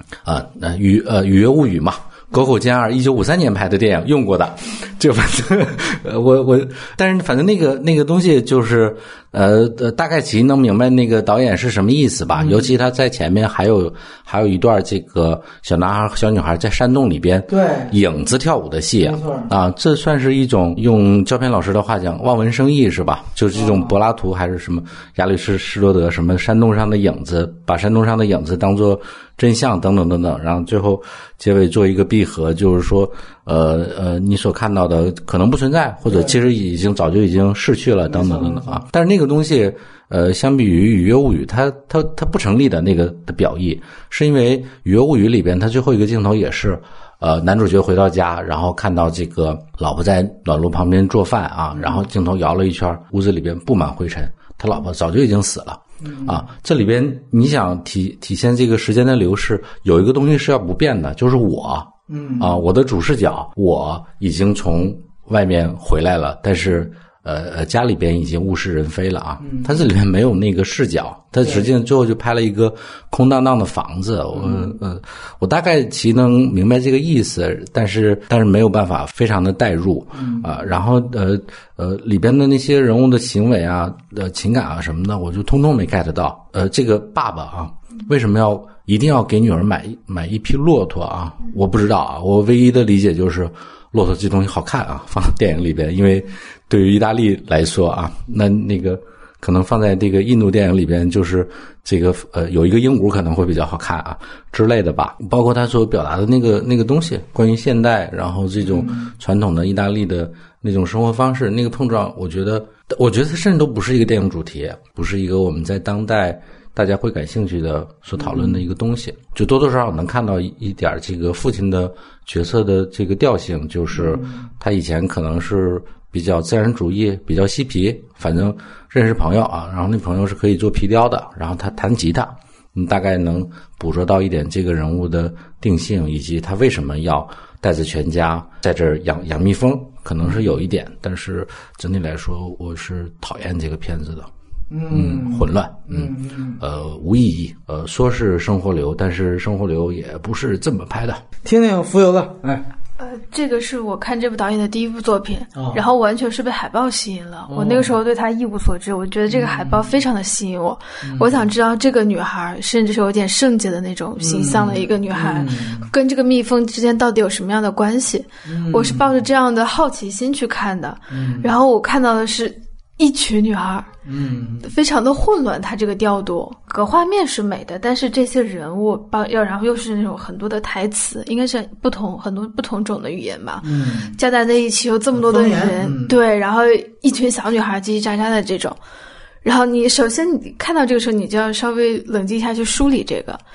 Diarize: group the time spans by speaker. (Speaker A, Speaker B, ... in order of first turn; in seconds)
Speaker A: 0.2-144.3, 144.9-151.2
Speaker B: 12.4-12.7, 17.5-17.9, 19.0-19.5, 23.6-23.9, 36.1-36.4, 38.1-38.8, 56.0-56.4, 62.1-62.5, 69.4-69.8, 71.4-71.7, 74.4-74.7, 80.2-80.5, 108.6-109.1, 118.2-118.6, 123.9-124.4, 144.7-146.6, 151.4-152.7, 155.6-155.8, 157.5-158.0, 159.3-159.9, 161.0-161.4, 164.2-165.9, 168.5-169.1, 171.1-171.5, 174.1-174.7, 183.6-184.2, 185.2-186.2
Speaker C: 153.0-173.9, 174.6-188.8, 189.4-193.4